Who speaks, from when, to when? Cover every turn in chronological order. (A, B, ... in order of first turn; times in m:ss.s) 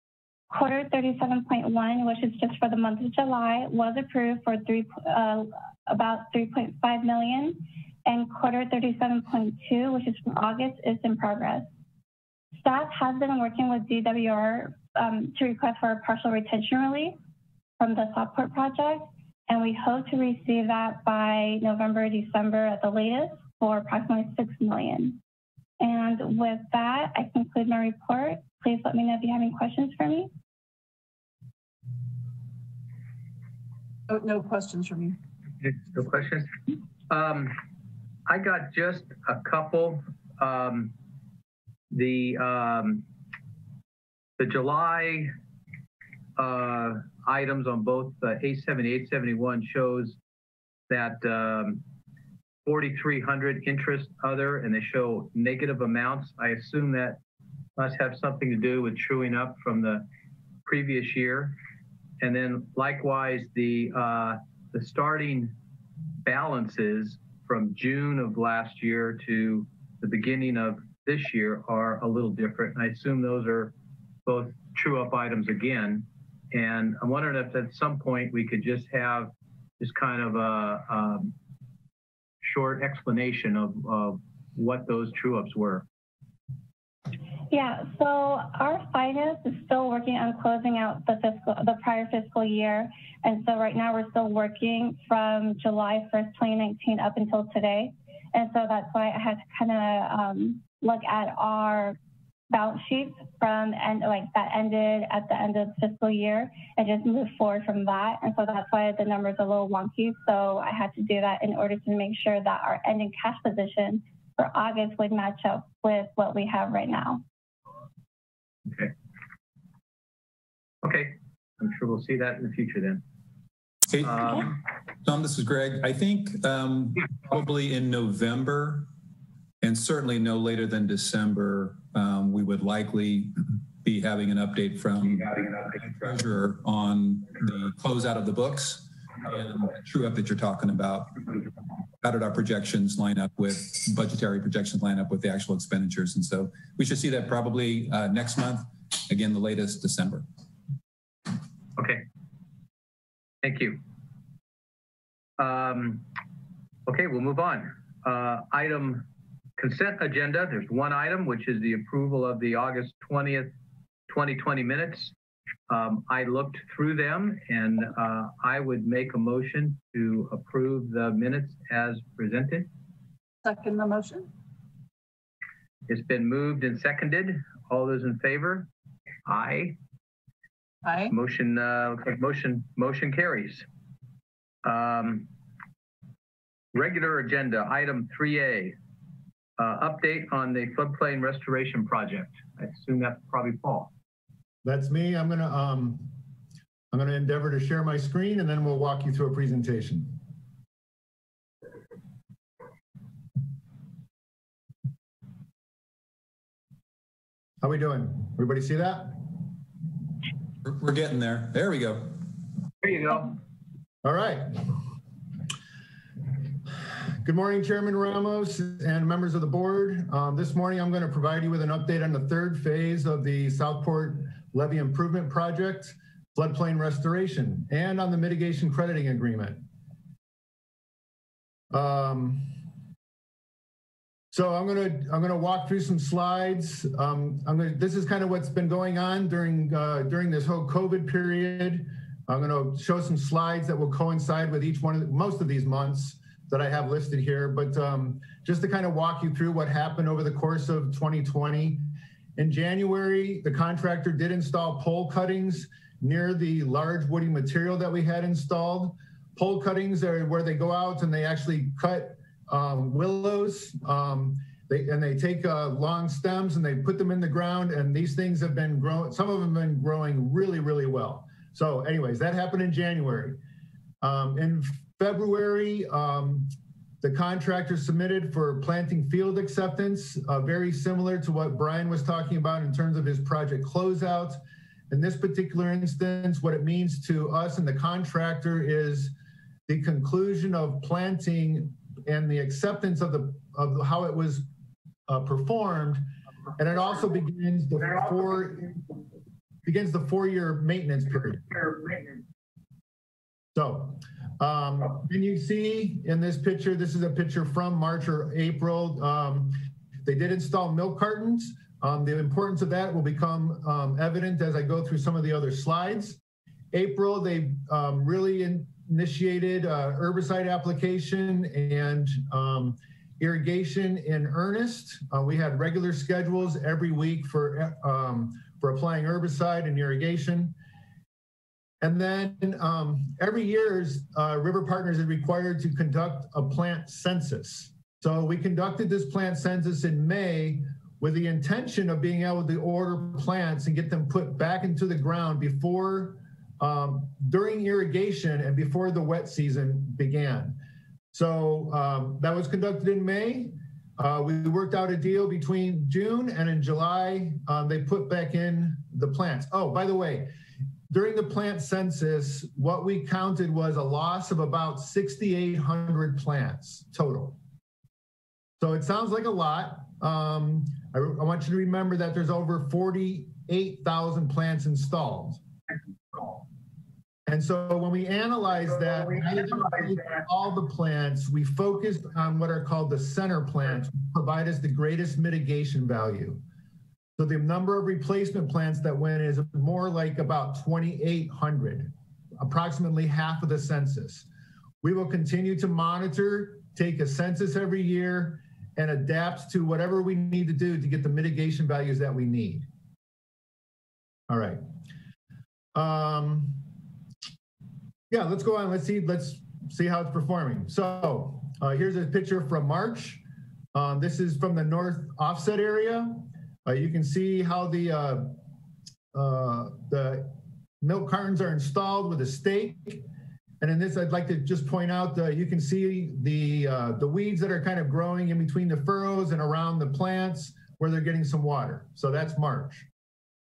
0:00.5-0:11.7 A
0:12.6-0:17.2 A
0:17.8-0:25.2 A
0:25.8-0:30.3 A
0:34.1-0:35.2 B
0:35.6-0:36.5 C
0:37.1-0:37.6 C
0:38.2-0:40.9 C
0:41.9-0:43.0 C
0:44.4-0:45.3 C
0:46.4-0:50.2 C
0:50.9-0:51.8 C
0:52.6-0:57.2 C
0:57.8-1:00.0 C
1:00.6-1:01.6 C
1:02.2-1:05.5 C
1:06.2-1:13.7 C
1:14.2-1:21.3 C
1:22.4-1:25.8 C
1:27.5-1:42.0 A
1:42.5-1:57.2 A
1:58.7-1:58.9 C
2:00.8-2:03.0 C
2:03.9-2:08.9 D
2:04.0-2:04.4 C
2:09.6-2:21.4 D
2:22.0-2:30.2 D
2:31.8-2:32.0 C
2:33.4-2:33.8 C
2:35.4-2:36.0 C
2:36.9-2:43.5 C
2:44.1-2:45.1 C
2:45.7-2:52.7 C
2:53.4-2:54.3 B
2:55.9-2:58.7 C
2:59.2-2:59.8 C
3:00.8-3:01.1 B
3:01.1-3:03.6 C
3:04.6-3:05.3 C
3:06.7-3:08.8 C
3:09.6-3:13.9 C
3:14.6-3:16.1 E
3:16.9-3:20.2 E
3:27.6-3:29.3 E
3:30.6-3:32.2 D
3:32.8-3:33.4 C
3:34.0-3:34.8 E
3:37.2-3:49.6 E
3:51.7-3:52.5 E
3:54.3-4:33.4 E
4:34.0-4:49.1 E
4:49.7-4:54.4 E
4:55.1-4:56.0 E
4:56.6-4:59.0 E
4:59.6-5:02.0 E
5:03.5-5:16.2 E
5:16.7-5:30.5 E
5:31.8-5:50.6 E
5:51.1-6:00.3 E
6:00.9-6:07.4 E
6:08.6-6:15.4 E
6:17.3-6:26.4 E
6:27.2-6:34.2 E
6:34.8-6:42.7 E
6:44.3-6:44.6 E
6:45.7-6:46.6 E
6:48.1-6:53.2 E
6:53.7-6:58.4 E
6:59.1-7:03.0 E
7:03.6-7:12.9 E